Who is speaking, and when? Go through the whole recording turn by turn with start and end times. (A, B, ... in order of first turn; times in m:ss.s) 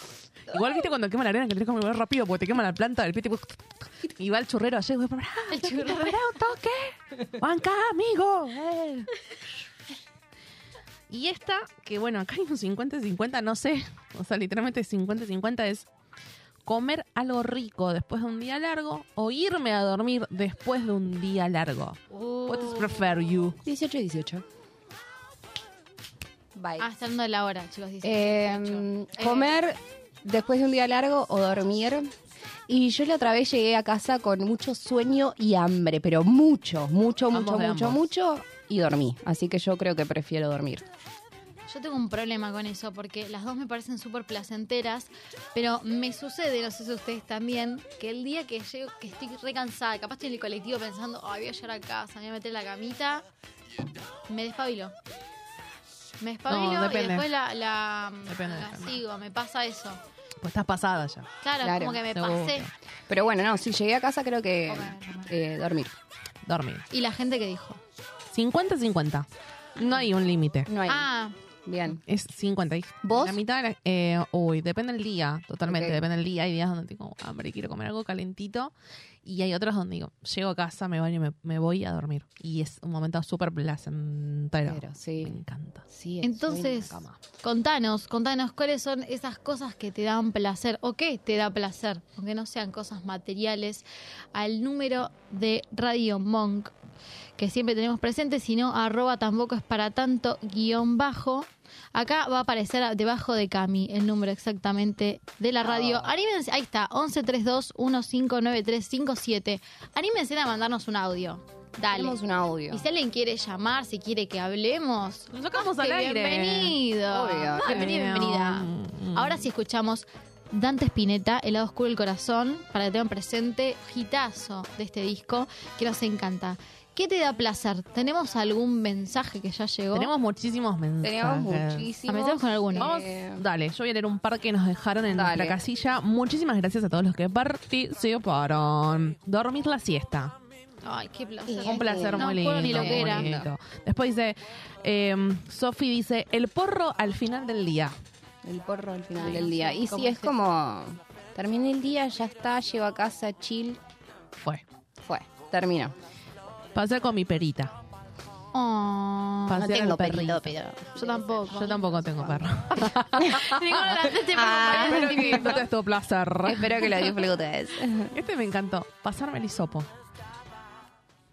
0:00.5-0:09.1 A
0:05.5-0:06.2 B
0:11.1-0:15.9 A
0:16.6-0:23.6 A
0:22.1-0:23.1 B
0:23.6-0:24.4 C
0:26.5-0:26.9 C
0:26.8-0:29.6 B
0:28.0-0:32.1 C
0:32.7-0:40.9 C
0:37.3-0:38.0 A
0:41.7-0:53.2 B
0:54.3-0:54.9 B
0:56.2-1:00.0 B
0:56.5-0:57.3 A
0:58.3-0:59.0 A
1:00.4-1:01.3 A
1:01.4-1:02.7 B
1:01.6-1:02.0 C
1:02.1-1:02.7 A
1:03.1-1:05.9 C
1:04.7-1:05.3 B
1:06.4-1:06.9 A
1:06.9-1:07.8 B
1:08.3-1:10.7 A
1:10.7-1:11.1 C
1:10.9-1:11.3 B
1:11.6-1:12.0 C
1:12.1-1:18.7 A
1:13.0-1:13.4 C
1:15.6-1:16.0 C
1:19.2-1:25.8 A
1:24.6-1:25.4 C
1:25.9-1:27.0 C
1:26.2-1:36.7 B
1:26.8-1:27.2 A
1:37.4-1:52.2 B
1:45.6-1:46.1 C
1:51.9-1:52.8 C
1:52.7-2:10.1 B
1:55.3-1:56.8 A
1:57.1-1:57.9 C
1:57.6-1:59.4 A
2:09.9-2:11.9 A
2:11.0-2:13.4 C
2:12.1-2:12.9 B
2:12.8-2:20.3 A
2:15.1-2:15.6 C
2:20.8-2:23.3 B
2:21.4-2:23.5 C
2:21.6-2:27.9 A
2:28.4-2:33.8 C
2:29.2-2:30.3 B
2:34.4-2:34.6 A
2:35.0-2:35.9 C
2:36.7-2:37.7 A
2:38.5-2:39.6 B
2:39.5-2:40.6 A
2:39.6-2:42.5 C
2:40.9-2:42.0 B
2:41.5-2:43.9 A
2:43.2-2:45.6 B
2:44.3-2:45.6 C
2:44.4-2:47.2 A
2:46.4-2:48.2 C
2:48.1-2:49.9 A